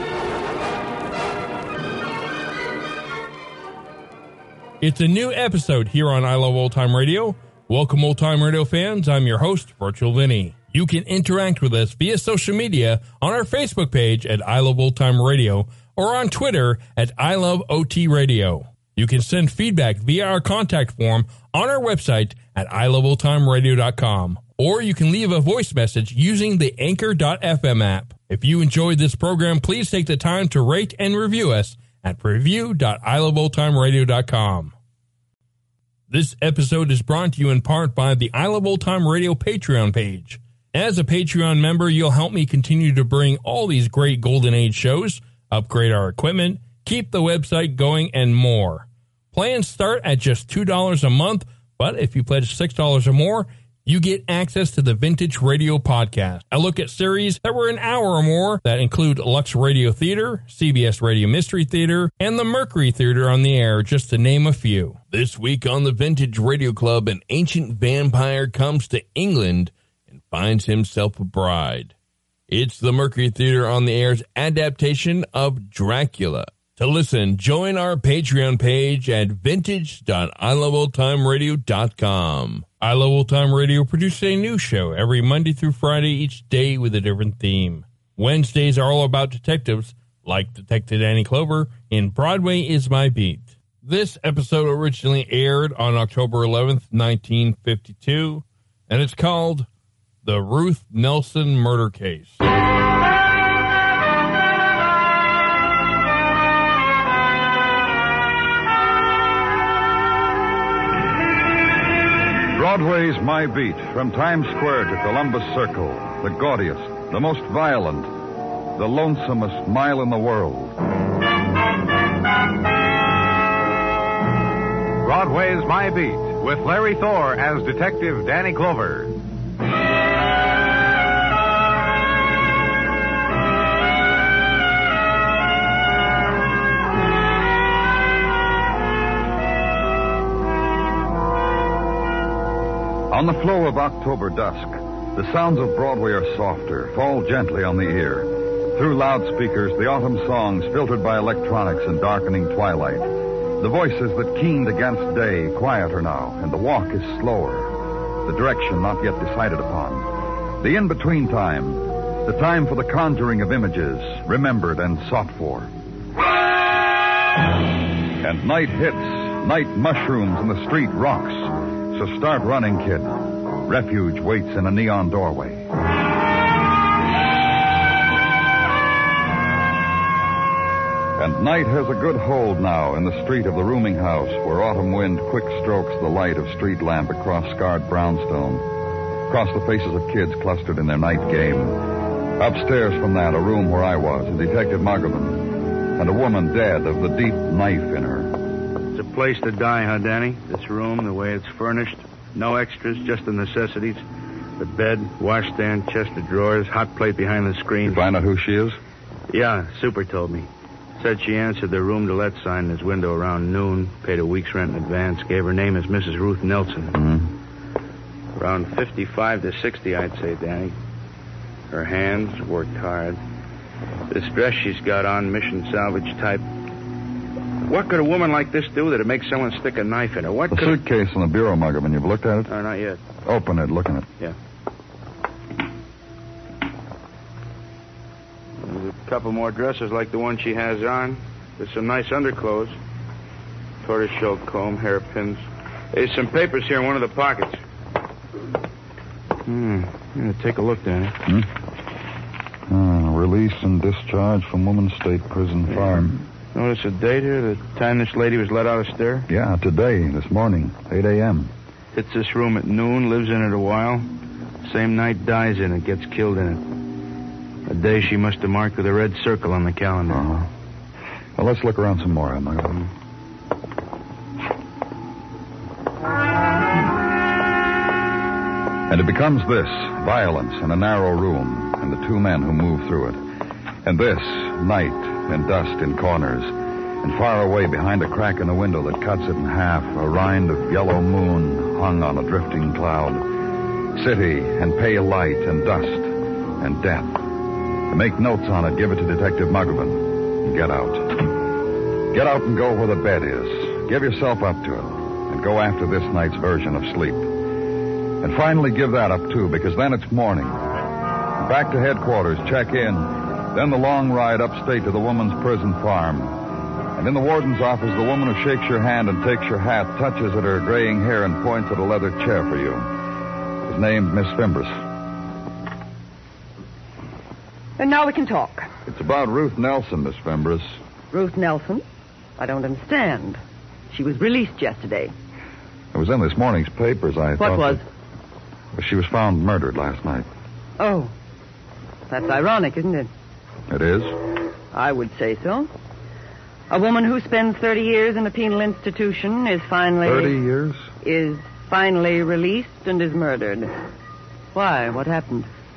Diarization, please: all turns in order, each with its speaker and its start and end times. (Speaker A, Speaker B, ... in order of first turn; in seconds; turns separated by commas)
Speaker A: 4.8-34.7, Speaker A: 36.1-71.9, Speaker A: 72.5-99.7, Speaker A: 100.2-102.4, Speaker B: 112.5-118.1, Speaker B: 118.7-120.8, Speaker C: 125.0-129.1, Speaker B: 143.1-153.1, Speaker B: 153.6-157.7, Speaker B: 158.2-165.7, Speaker B: 168.2-175.7, Speaker B: 181.2-188.7, Speaker B: 189.3-198.4, Speaker D: 198.9-204.0, Speaker D: 204.6-208.0, Speaker B: 207.8-208.8, Speaker D: 209.3-217.0, Speaker B: 216.9-217.3, Speaker D: 218.3-220.8, Speaker D: 221.7-223.2, Speaker D: 224.1-226.4, Speaker D: 227.7-230.8, Speaker B: 230.5-232.5, Speaker D: 232.5-233.0, Speaker B: 233.2-234.1, Speaker D: 238.6-242.8, Speaker D: 243.8-247.6, Speaker D: 249.4-251.2, Speaker B: 252.7-256.2, Speaker D: 255.7-259.3, Speaker B: 259.3-261.5, Speaker D: 261.9-264.1, Speaker D: 264.6-266.7, Speaker D: 267.6-270.3, Speaker B: 270.1-270.5, Speaker B: 271.4-272.9, Speaker B: 278.9-283.2, Speaker B: 283.8-293.2, Speaker B: 293.9-297.2, Speaker B: 297.9-301.3, Speaker B: 302.1-307.3, Speaker B: 308.2-310.6, Speaker B: 311.4-316.4, Speaker B: 316.9-322.9, Speaker B: 323.6-324.8, Speaker E: 327.8-328.7, Speaker B: 328.9-330.8, Speaker E: 331.1-331.8, Speaker E: 332.4-333.4, Speaker E: 333.9-335.1, Speaker B: 335.9-337.8, Speaker E: 337.4-337.8, Speaker B: 338.7-340.3, Speaker E: 340.8-341.1, Speaker E: 342.1-343.1, Speaker B: 343.7-344.1, Speaker E: 344.7-345.7, Speaker E: 346.7-350.4, Speaker B: 350.0-350.8, Speaker E: 351.0-353.7, Speaker E: 354.5-355.5